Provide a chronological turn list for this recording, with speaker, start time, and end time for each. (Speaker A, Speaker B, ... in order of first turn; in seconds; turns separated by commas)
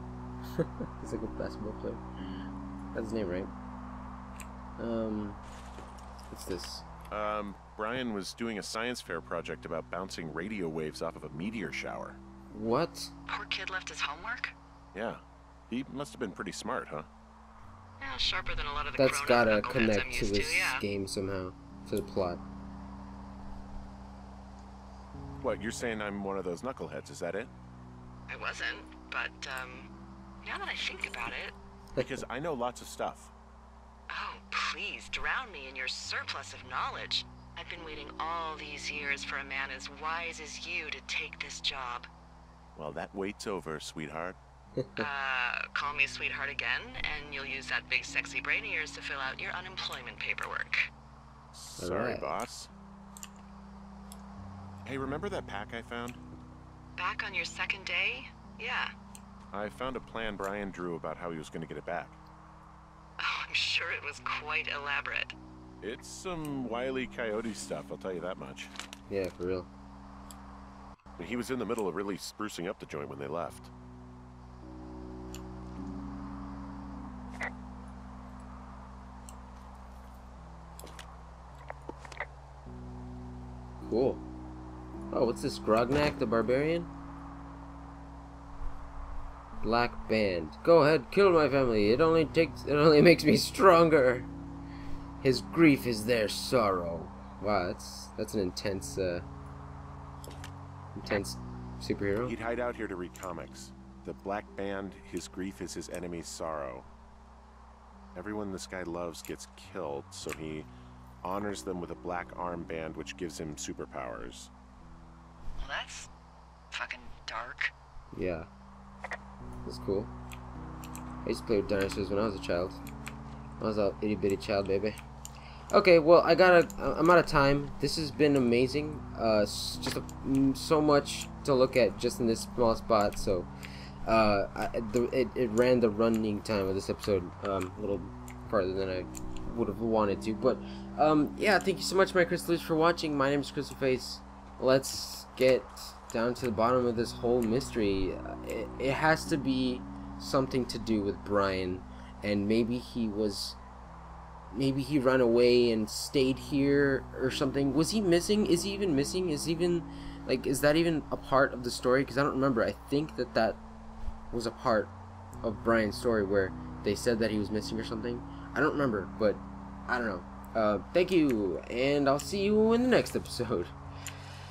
Speaker A: 0.6-2.0, Speaker A: 2.9-3.5, Speaker A: 4.8-5.4, Speaker A: 6.3-6.8, Speaker B: 7.1-12.2, Speaker A: 12.5-13.1, Speaker C: 13.3-14.5, Speaker B: 14.9-17.1, Speaker C: 18.0-20.8, Speaker A: 18.9-22.4, Speaker B: 25.4-27.5, Speaker C: 28.3-29.9, Speaker C: 30.4-31.5, Speaker A: 31.9-32.2, Speaker B: 32.0-33.3, Speaker C: 34.1-42.1, Speaker B: 42.8-44.4, Speaker A: 44.8-45.0, Speaker C: 45.0-50.9, Speaker B: 51.5-52.7, Speaker A: 51.8-52.3, Speaker B: 54.8-56.2, Speaker C: 57.0-58.9, Speaker B: 59.5-62.2, Speaker C: 63.2-65.3, Speaker B: 65.8-68.7, Speaker A: 69.1-69.7, Speaker B: 71.2-73.7, Speaker A: 83.8-84.2, Speaker A: 85.1-86.9, Speaker A: 89.6-94.3, Speaker A: 95.2-99.2, Speaker A: 100.9-102.3, Speaker B: 102.2-106.9, Speaker B: 108.1-110.7, Speaker B: 111.2-114.5, Speaker C: 115.6-116.1, Speaker C: 116.7-117.7, Speaker A: 118.1-118.5, Speaker A: 119.6-120.1, Speaker A: 121.2-122.8, Speaker A: 123.6-125.0, Speaker A: 125.7-133.5, Speaker A: 134.0-153.6, Speaker A: 154.5-163.6, Speaker A: 164.3-173.7